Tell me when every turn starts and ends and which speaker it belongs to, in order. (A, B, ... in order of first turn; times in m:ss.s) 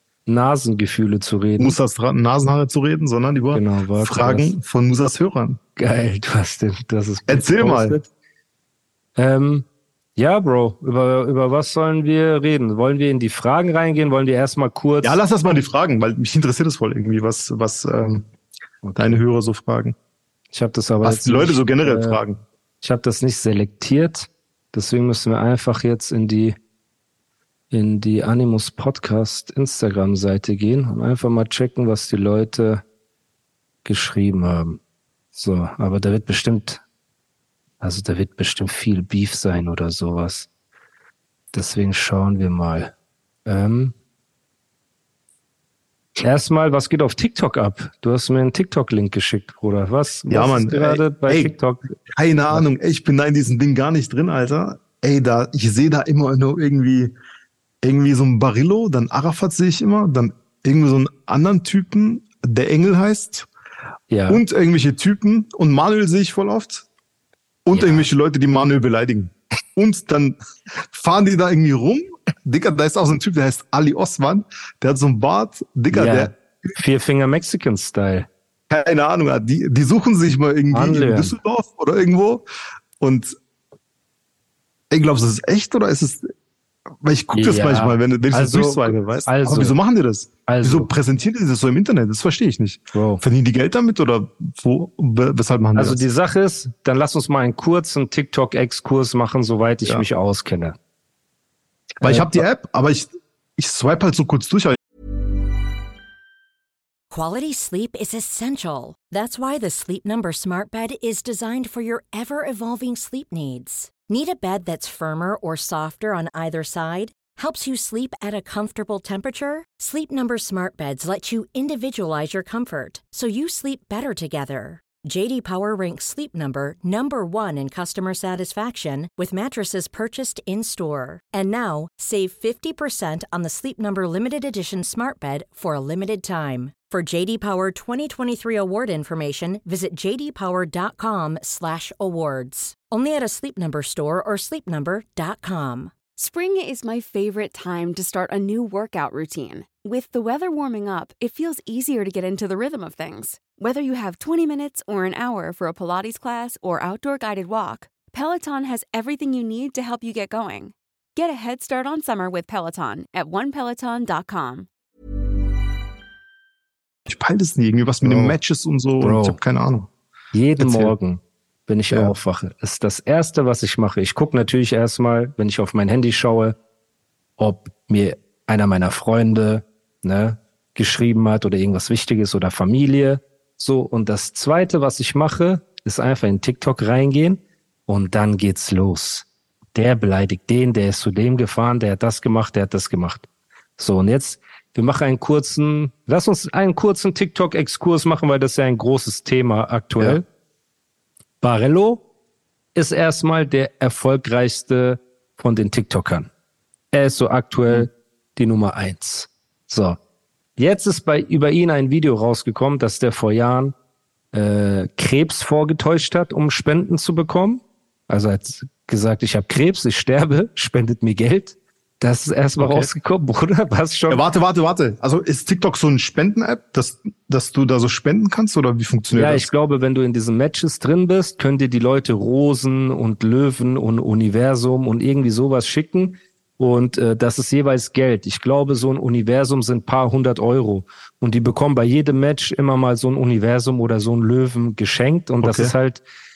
0:00.2-0:01.8 A
0:01.6-0:05.6 B
0:03.5-0:04.5 A
0:05.8-0:08.1 A
0:07.3-0:08.0 B
0:09.2-0:15.2 A
0:15.0-0:18.2 B
0:18.8-0:19.2 A
0:19.0-0:19.9 B
0:20.5-0:22.2 A
0:21.0-0:22.4 B
0:22.8-0:26.5 A
0:27.7-0:32.8 A
0:33.8-0:34.8 A
0:35.3-0:36.8 A
0:37.8-0:40.5 A
0:41.5-0:42.9 A
0:43.4-0:43.9 A
0:46.2-0:51.9 A
0:50.3-0:51.5 B
0:52.1-0:57.1 B
0:57.8-1:03.5 B
1:04.1-1:04.4 A
1:04.3-1:06.8 B
1:07.6-1:10.4 B
1:07.7-1:08.1 A
1:10.9-1:16.3 B
1:15.9-1:18.3 A
1:18.7-1:22.4 B
1:20.7-1:21.4 A
1:23.0-1:23.3 B
1:24.9-1:26.3 B
1:27.0-1:36.0 B
1:27.3-1:29.8 A
1:30.5-1:30.9 A
1:32.9-1:33.2 A
1:35.8-1:40.8 A
1:42.0-1:44.8 B
1:42.0-1:42.3 A
1:47.1-2:25.9 C
2:26.2-2:44.7 D
2:47.1-2:49.9 B
2:48.0-2:48.4 A
2:49.0-2:49.4 A
2:50.3-2:56.5 A
2:50.6-2:50.9 B
2:57.4-3:13.3 A
3:13.8-3:20.2 A
3:21.4-3:22.0 A
3:22.7-3:26.3 A
3:26.9-3:30.0 A
3:30.6-3:33.7 A
3:34.3-3:44.2 A
3:42.6-3:42.9 B
3:44.1-3:49.5 B
3:49.1-4:06.0 A
4:05.4-4:05.7 B